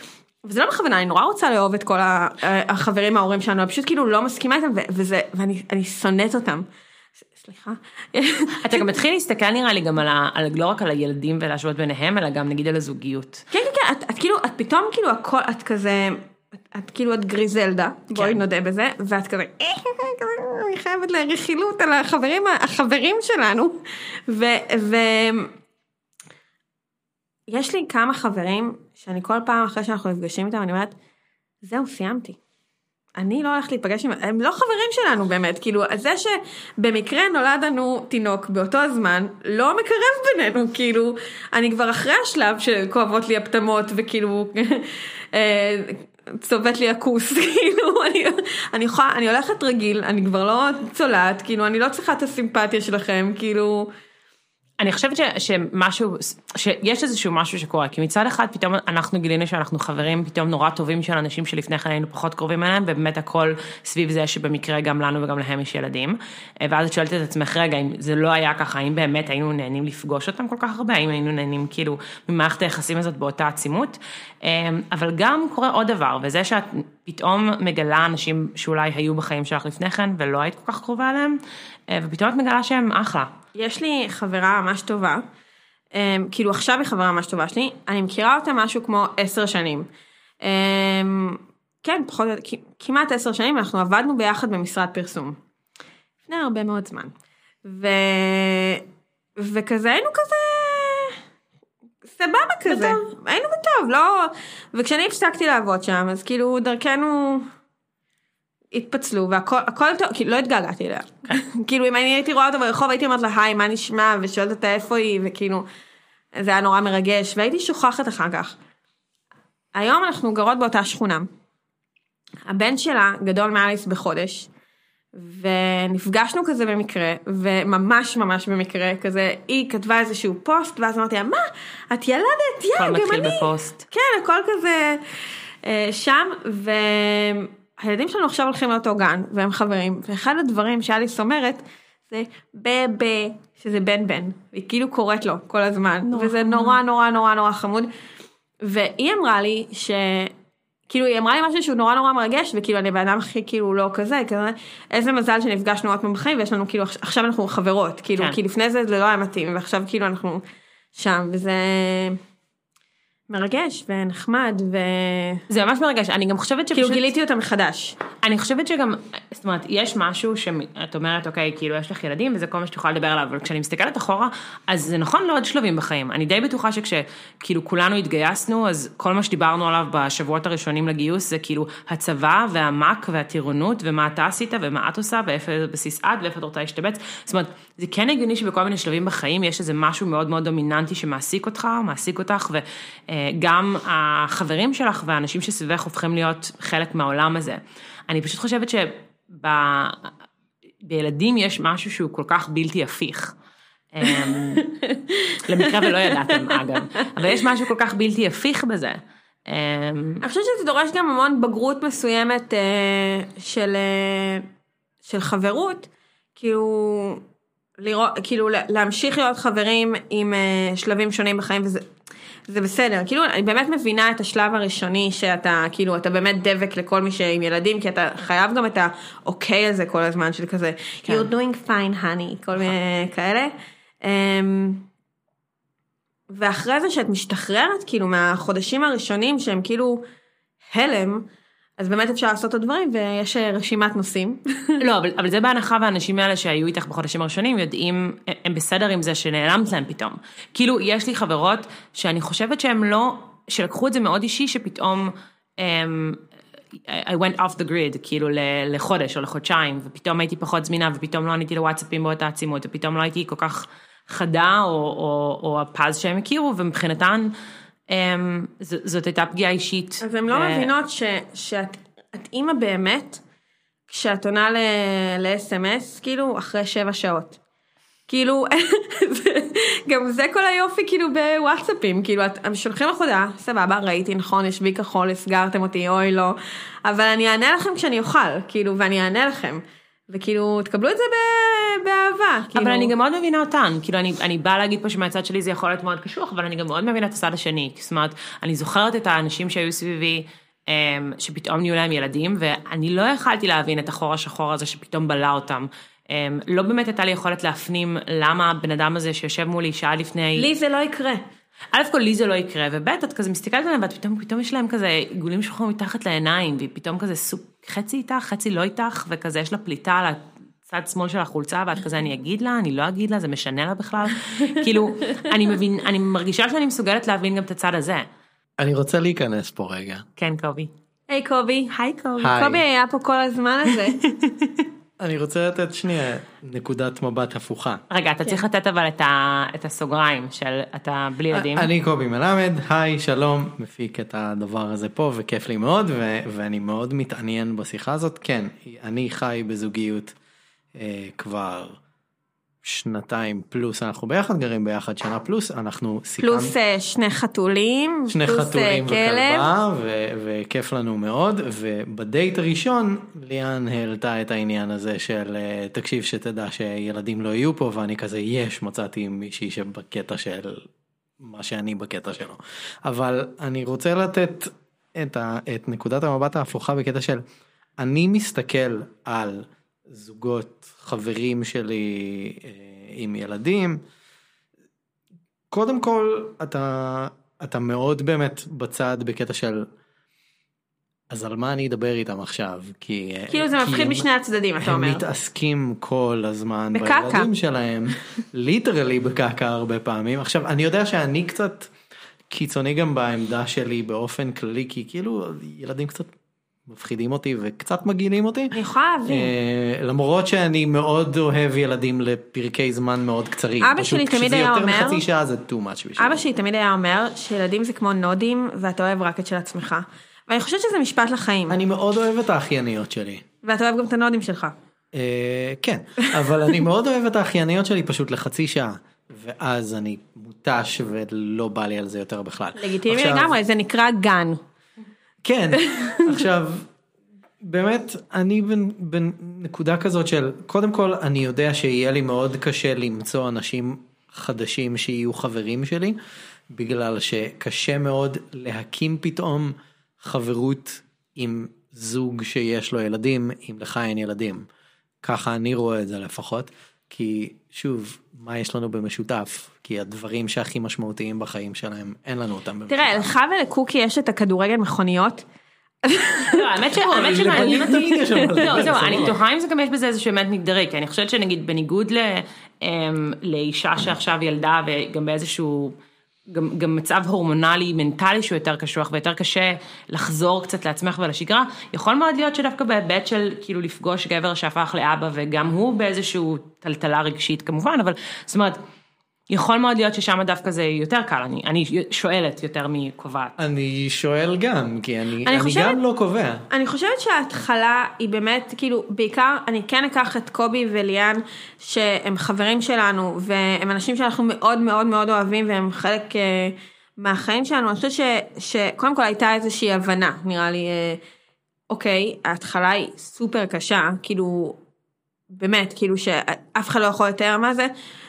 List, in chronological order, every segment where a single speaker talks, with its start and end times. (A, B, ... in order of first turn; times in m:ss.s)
0:00.4-0:06.6 A
0:07.2-0:08.9 A
0:08.6-0:13.4 B
0:13.5-0:25.5 A
0:18.1-0:18.4 B
0:27.5-0:30.9 A
0:31.6-0:32.4 A
0:33.2-0:53.9 A
0:54.8-1:23.4 B
1:23.5-1:25.2 A
1:25.9-1:29.9 A
1:30.4-1:35.4 A
1:36.2-1:37.1 A
1:37.6-1:38.8 A
1:39.4-1:41.2 A
1:42.1-1:47.5 A
1:42.7-1:43.0 B
1:48.7-1:55.6 A
1:56.3-1:58.6 A
1:59.7-2:01.3 A
2:02.4-2:04.5 A
2:05.1-2:15.0 A
2:12.8-2:13.8 B
2:15.6-2:27.9 A
2:26.1-2:26.8 B
2:28.6-2:30.3 A
2:30.9-2:40.4 A
2:40.9-2:42.2 A
2:43.3-2:45.4 A
2:45.5-2:47.1 B
2:46.7-2:48.0 A
2:48.2-3:20.1 B
3:20.8-3:23.3 B
3:23.9-3:24.6 B
3:24.6-3:26.5 A
3:25.4-3:30.2 B
3:30.2-3:34.5 A
3:35.0-3:37.2 A
3:37.8-3:41.9 A
3:42.5-3:54.9 A
3:51.0-3:51.3 B
3:56.3-4:00.0 A
4:00.7-4:04.8 A
4:04.8-4:16.2 B
4:16.7-4:27.3 B
4:27.9-4:30.7 B
4:30.0-4:33.2 A
4:33.9-4:37.4 A
4:38.1-4:52.9 A
4:52.5-5:10.5 B
5:10.4-5:11.2 A
5:11.7-5:28.1 B
5:25.0-5:25.3 A
5:28.6-5:30.0 C
5:30.2-5:30.7 B
5:31.1-5:34.0 A
5:31.7-5:32.3 B
5:32.2-5:32.6 C
5:33.8-5:34.6 B
5:35.0-5:37.8 C
5:37.9-5:41.7 B
5:41.3-5:50.1 C
5:50.8-5:51.8 C
5:52.6-5:56.5 C
5:56.2-5:59.5 A
5:58.1-6:10.6 C
6:11.2-6:17.2 C
6:17.8-6:23.8 C
6:25.5-6:29.7 C
6:31.1-6:34.0 C
6:33.3-6:35.0 A
6:34.6-6:41.7 C
6:36.7-6:37.3 A
6:42.3-6:46.1 C
6:46.7-6:56.2 C
6:48.5-6:49.3 A
6:53.6-6:55.0 A
6:56.0-7:01.6 A
7:01.5-7:03.2 C
7:03.4-7:04.5 A
7:04.9-7:13.3 C
7:12.6-7:14.4 A
7:15.2-7:16.7 C
7:15.6-7:16.0 A
7:17.4-7:26.0 C
7:26.5-7:34.4 C
7:35.0-7:43.0 C
7:42.7-7:45.2 A
7:45.8-7:49.0 A
7:46.3-7:55.7 B
7:46.8-7:49.2 C
7:56.3-8:08.6 B
8:09.3-8:13.4 B
8:13.4-8:16.4 C
8:15.2-8:15.8 A
8:16.5-8:31.0 A
8:31.7-8:34.6 A
8:35.3-8:37.7 A